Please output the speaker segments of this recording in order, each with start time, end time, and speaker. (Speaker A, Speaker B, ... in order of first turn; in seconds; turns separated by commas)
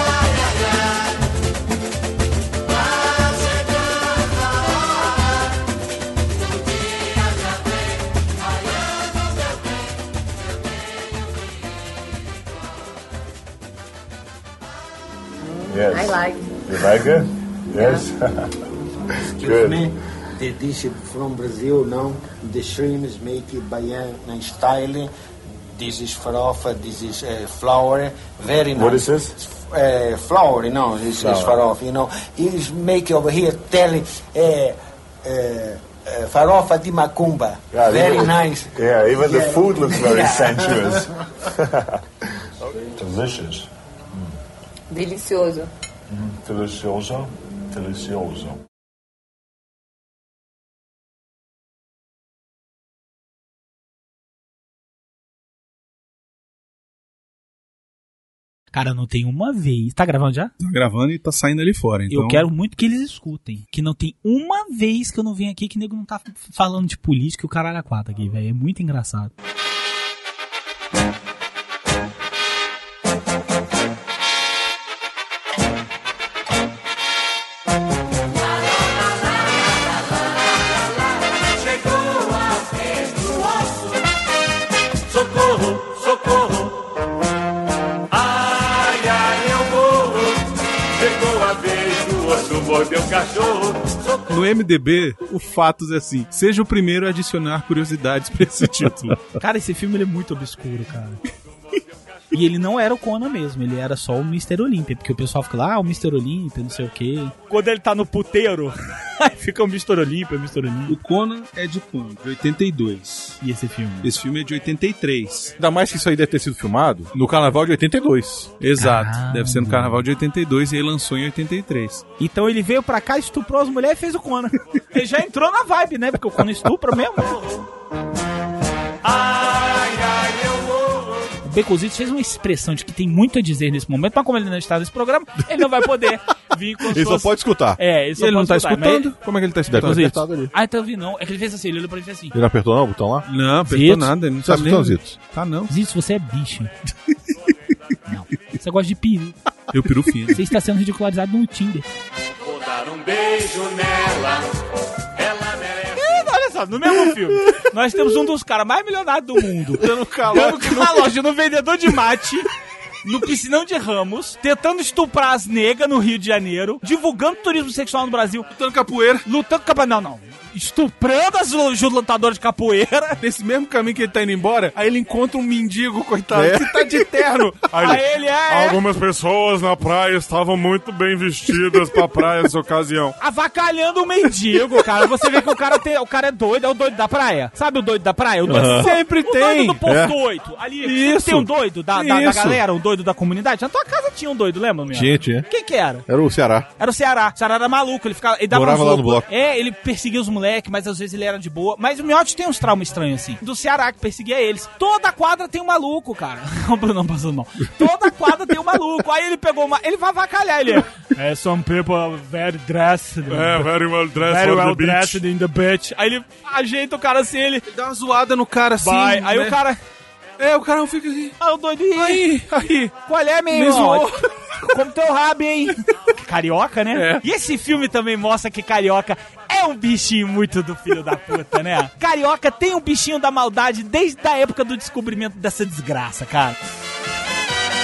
Speaker A: 15.4-17.1, Speaker B: 15.7-18.6, Speaker A: 17.7-18.1, Speaker C: 19.4-25.1, Speaker B: 19.4-19.9, Speaker C: 25.7-41.0, Speaker B: 28.7-29.4, Speaker B: 31.1-31.6, Speaker B: 37.7-42.0, Speaker B: 42.9-44.3, Speaker A: 44.9-45.7, Speaker B: 46.1-48.6, Speaker D: 58.7-60.5, Speaker E: 60.6-62.5, Speaker D: 62.1-69.3, Speaker F: 81.2-83.9, Speaker F: 85.1-86.8, Speaker F: 88.1-94.2, Speaker E: 94.3-99.2, Speaker D: 99.4-101.2, Speaker D: 102.3-111.0, Speaker E: 110.9-113.4, Speaker D: 113.4-114.1, Speaker E: 114.0-115.5, Speaker G: 115.6-118.5, Speaker E: 118.6-122.0, Speaker D: 118.8-120.0, Speaker D: 122.2-127.3, Speaker F: 127.2-127.7, Speaker F: 129.0-131.3, Speaker D: 131.4-139.1, Speaker G: 136.9-137.8, Speaker E: 138.2-140.2, Speaker G: 139.7-140.5, Speaker D: 139.7-142.3, Speaker G: 142.3-143.3, Speaker E: 143.3-145.7, Speaker D: 143.7-144.1, Speaker G: 144.4-145.1, Speaker D: 145.7-146.7, Speaker D: 148.1-149.4, Speaker E: 149.7-150.4, Speaker D: 150.3-151.8, Speaker F: 152.4-154.5, Speaker F: 155.1-156.3, Speaker D: 156.0-162.5, Speaker E: 159.8-161.1, Speaker D: 163.0-168.5, Speaker E: 168.5-169.2, Speaker D: 169.2-173.2, Speaker E: 173.2-178.0, Speaker G: 176.3-177.0, Speaker H: 177.8-182.8, Speaker D: 177.8-178.8, Speaker E: 182.4-183.1, Speaker D: 183.2-196.1, Speaker G: 188.4-188.9, Speaker E: 188.6-189.8, Speaker G: 189.8-190.2, Speaker E: 190.8-192.6, Speaker G: 194.9-195.4, Speaker G: 196.1-196.7, Speaker D: 196.8-217.7, Speaker G: 198.5-199.3, Speaker E: 213.3-213.6, Speaker H: 213.5-215.2, Speaker E: 214.2-214.6, Speaker E: 217.7-219.6, Speaker D: 218.8-219.8, Speaker E: 220.4-221.3, Speaker D: 221.4-222.3, Speaker E: 221.9-222.9, Speaker D: 223.0-236.6, Speaker E: 223.5-224.2, Speaker E: 226.9-227.2